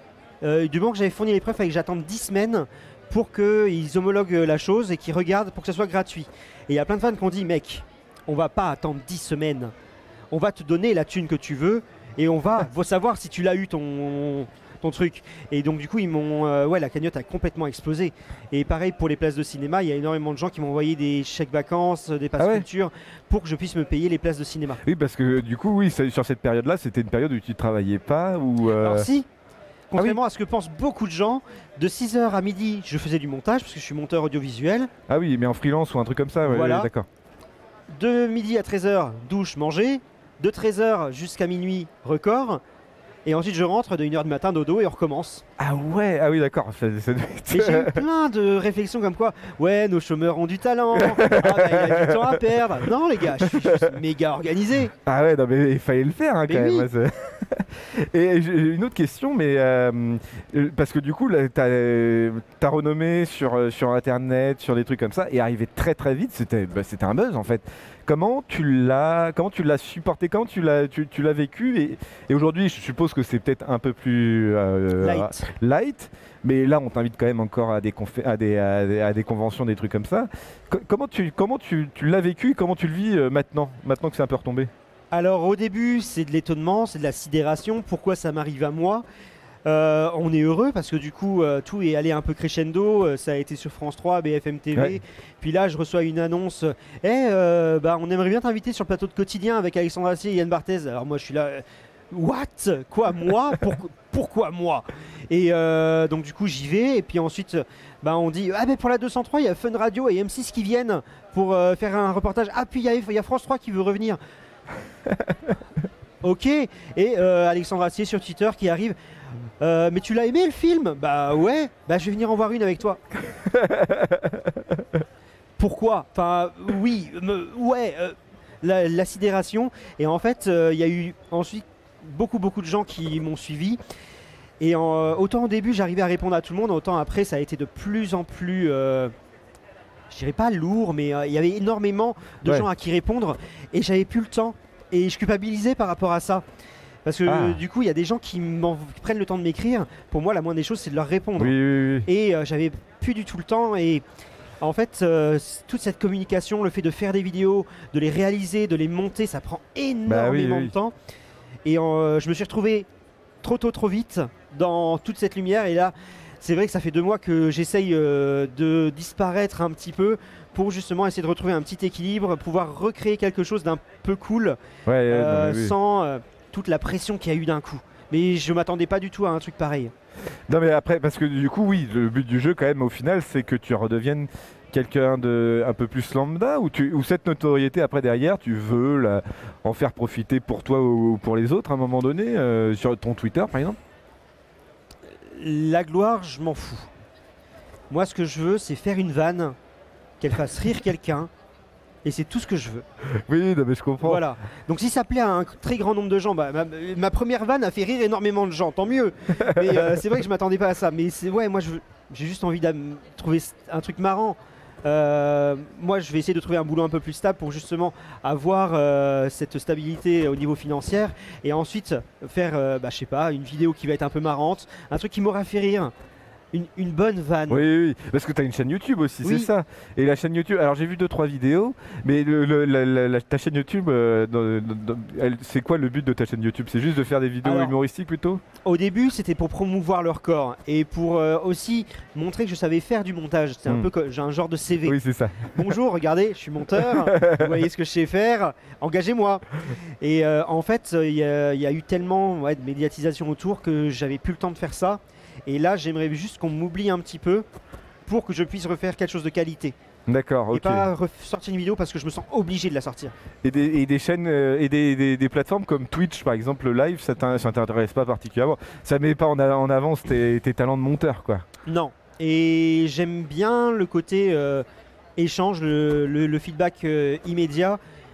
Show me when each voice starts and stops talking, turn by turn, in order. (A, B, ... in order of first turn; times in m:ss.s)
0:00.4-0:09.7 A
0:10.3-0:24.8 A
0:22.4-0:22.6 B
0:24.8-0:29.1 B
0:28.8-0:29.3 A
0:29.9-0:34.9 A
0:35.1-0:37.1 B
0:36.4-0:36.9 A
0:37.9-0:42.6 A
0:43.2-0:45.4 A
0:45.6-0:48.0 B
0:47.5-0:54.9 A
0:50.9-0:52.6 B
0:53.4-0:53.9 B
0:55.0-1:24.7 B
0:56.4-0:56.9 A
1:15.0-1:15.4 A
1:25.1-1:29.0 A
1:29.6-1:54.2 A
1:56.2-1:59.0 A
1:59.6-2:03.0 A
2:03.5-2:04.5 B
2:05.6-2:13.8 A
2:14.6-2:19.1 A
2:20.1-2:26.4 A
2:27.0-2:34.0 A
2:27.2-2:27.6 B
2:31.4-2:32.1 B
2:34.6-2:40.9 A
2:40.1-2:40.7 B
2:41.6-2:42.9 A
2:43.4-2:59.9 A
2:54.8-2:55.7 B
3:00.5-3:13.8 B
3:15.3-3:16.9 A
3:17.9-3:19.6 A
3:20.2-3:21.3 A
3:22.0-3:22.8 A
3:23.2-3:24.2 B
3:24.0-3:45.9 A
3:29.4-3:29.8 B
3:46.5-3:47.6 A
3:47.5-3:58.4 B
3:49.2-3:49.5 A
3:57.4-3:57.8 A
3:58.6-4:05.0 A
4:04.8-4:05.6 B
4:05.5-4:17.4 A
4:06.8-4:07.5 B
4:18.0-4:19.7 A
4:20.1-4:20.9 B
4:20.5-4:23.1 A
4:23.4-4:31.4 B
4:31.6-4:34.6 A
4:35.2-4:37.8 A